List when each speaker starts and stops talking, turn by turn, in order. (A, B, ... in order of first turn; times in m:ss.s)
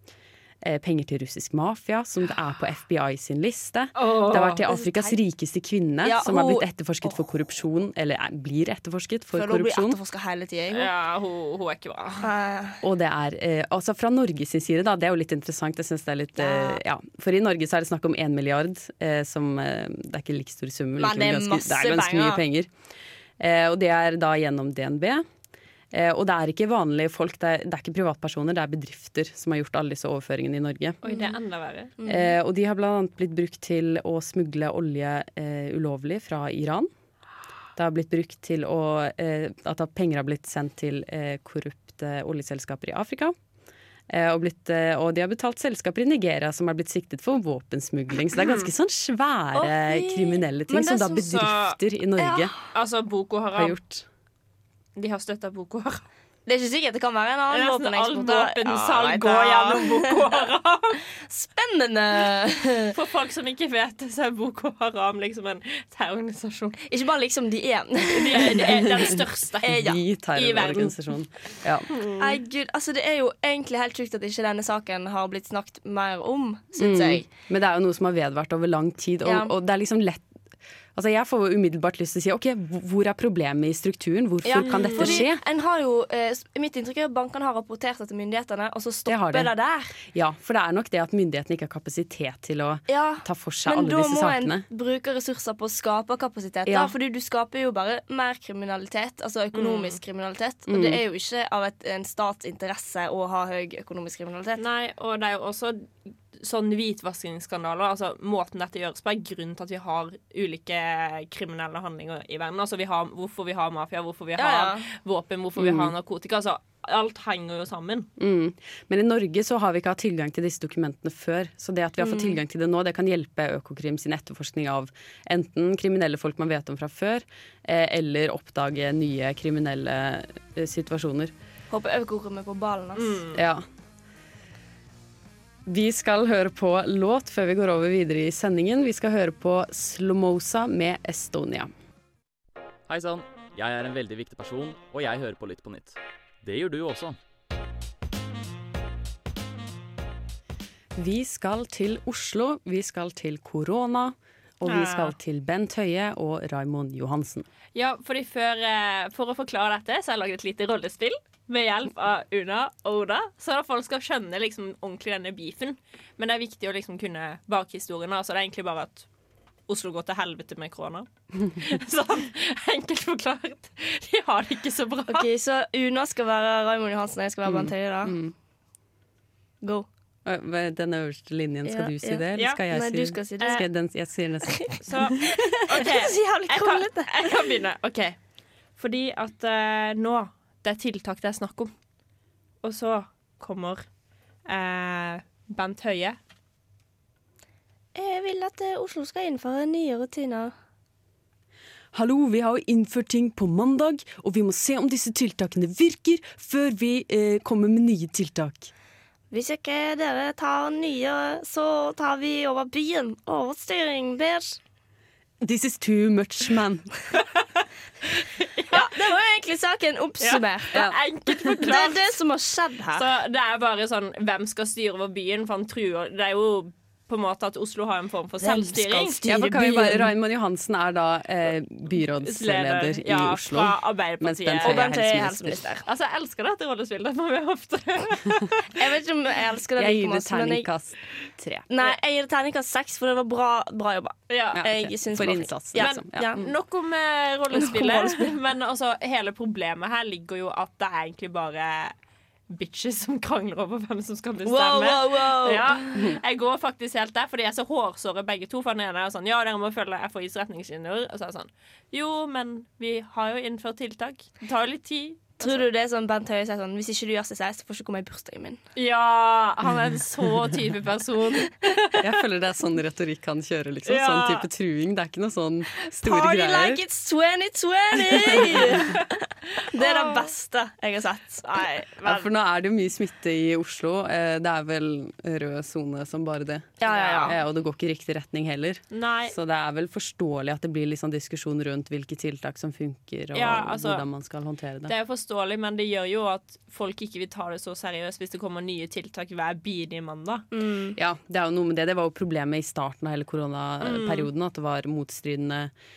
0:00.6-0:10.0 A
0:04.0-0:04.6 B
0:04.7-0:05.2 C
0:06.0-0:07.2 C
0:09.3-0:10.9 C
0:10.7-0:12.3 B
0:12.2-0:12.8 C
0:12.8-0:22.7 A
0:16.4-0:16.8 C
0:21.0-0:22.4 C
0:23.4-0:25.2 A
0:25.9-0:31.0 A
0:31.0-0:31.9 B
0:31.0-0:31.3 C
0:32.0-0:32.4 C
0:32.1-0:36.9 A
0:37.8-0:43.3 A
0:44.1-0:52.5 A
0:48.4-0:48.7 B
0:49.5-0:51.3 C
0:51.2-0:51.8 B
0:52.2-0:52.6 C
0:52.7-0:53.8 B
0:53.5-0:54.0 A
0:55.0-0:56.0 B
0:56.4-1:00.2 C
0:57.5-1:01.0 B
1:01.3-1:02.9 C
1:02.9-1:06.8 B
1:06.9-1:08.8 C
1:08.1-1:09.7 B
1:09.6-1:11.9 A
1:09.6-1:10.0 C
1:10.3-1:11.0 B
1:11.9-1:12.2 B
1:12.2-1:17.2 C
1:16.8-1:20.2 A
1:19.2-1:19.5 C
1:20.9-1:25.4 A
1:24.4-1:30.0 C
1:24.6-1:25.2 B
1:29.1-1:29.5 A
1:30.0-1:34.6 A
1:32.9-1:44.6 C
1:36.6-1:36.9 A
1:39.5-1:40.0 B
1:40.7-1:41.0 A
1:44.6-1:58.1 B
1:54.4-1:54.8 C
1:55.6-1:55.9 A
1:58.2-2:11.3 A
2:02.0-2:02.4 C
2:11.7-2:13.2 C
2:13.0-2:13.4 B
2:13.3-2:13.6 A
2:15.6-2:21.7 A
2:22.9-2:27.2 D
2:30.9-2:37.5 A
2:34.6-2:35.1 B
2:37.7-2:49.1 B
2:49.7-2:55.3 B
2:55.1-2:58.2 C
2:57.4-2:58.3 A
2:59.6-2:59.9 C
3:00.2-3:04.7 A
3:01.6-3:03.6 C
3:02.4-3:02.6 B
3:04.8-3:08.2 B
3:05.5-3:07.2 C
3:08.8-3:11.7 B
3:12.6-3:13.9 B
3:14.5-3:16.2 B
3:17.9-3:20.5 C
3:21.9-3:28.7 A
3:29.3-3:34.6 C
3:35.4-3:36.9 A
3:38.1-3:38.9 B
3:38.7-3:40.9 C
3:40.2-3:42.1 B
3:41.6-3:43.0 C
3:42.9-3:50.0 B
3:48.4-3:50.0 C
3:49.2-3:55.6 A
3:52.2-3:54.8 B
3:54.6-3:55.8 C
3:55.8-3:58.7 B
3:58.7-4:00.7 C
3:59.8-4:01.6 A
4:01.7-4:06.4 C
4:04.3-4:04.6 B
4:04.5-4:06.5 A
4:05.8-4:11.9 B
4:07.6-4:08.2 C
4:12.5-4:25.6 B
4:14.5-4:15.8 C
4:25.4-4:28.6 C
4:28.8-4:32.0 B
4:32.0-4:36.8 A
4:33.8-4:34.5 B
4:36.0-4:39.1 C
4:38.1-4:38.7 A
4:39.6-4:41.7 C
4:39.8-4:40.3 B
4:41.4-4:42.2 B
4:42.0-4:54.9 A
4:46.8-4:47.4 C
4:46.9-4:47.4 B
4:48.9-4:49.3 B
4:53.3-4:54.0 B
4:54.8-5:00.4 B
5:00.5-5:01.0 C
5:01.0-5:05.7 A
5:03.8-5:04.3 B